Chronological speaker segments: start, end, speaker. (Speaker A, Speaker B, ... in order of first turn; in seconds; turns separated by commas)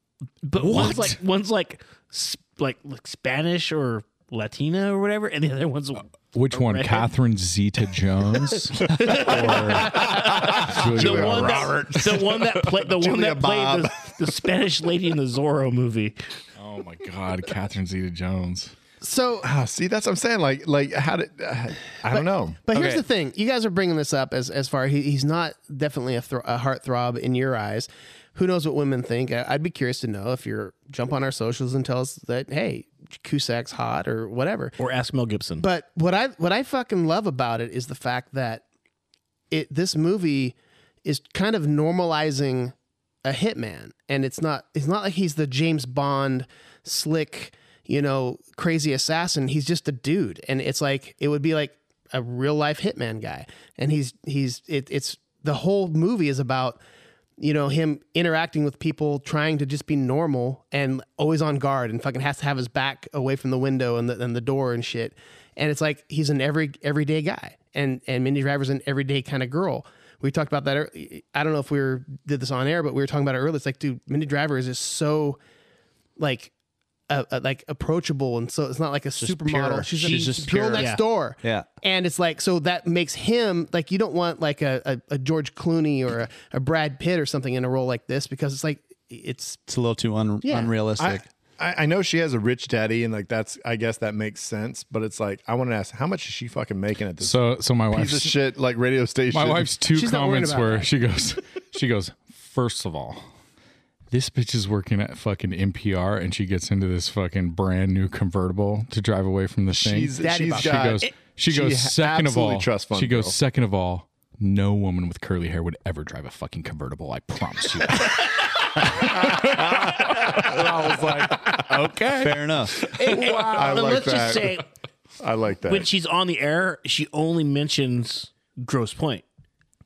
Speaker A: 0.4-7.1, Speaker B: 0.6-1.1, Speaker B: 6.3-11.8, Speaker A: 8.4-16.2, Speaker C: 9.0-14.3, Speaker B: 16.6-18.7, Speaker D: 19.0-19.5, Speaker C: 19.4-23.0, Speaker D: 22.1-34.8, Speaker A: 34.8-35.6, Speaker D: 35.6-38.6, Speaker D: 39.5-56.8, Speaker D: 57.4-75.4, Speaker D: 76.2-76.5, Speaker D: 77.1-89.6, Speaker E: 79.2-81.7, Speaker A: 80.0-81.0, Speaker E: 89.7-91.2, Speaker D: 90.4-90.7, Speaker C: 91.0-99.7, Speaker B: 97.2-98.3, Speaker B: 99.3-103.2, Speaker D: 99.9-100.9, Speaker B: 104.1-121.8, Speaker C: 109.7-113.3, Speaker D: 110.2-111.0, Speaker C: 119.0-121.6, Speaker E: 121.7-122.9, Speaker A: 122.8-124.7, Speaker C: 123.0-124.6, Speaker B: 123.1-123.4, Speaker C: 125.2-125.9, Speaker A: 125.7-129.2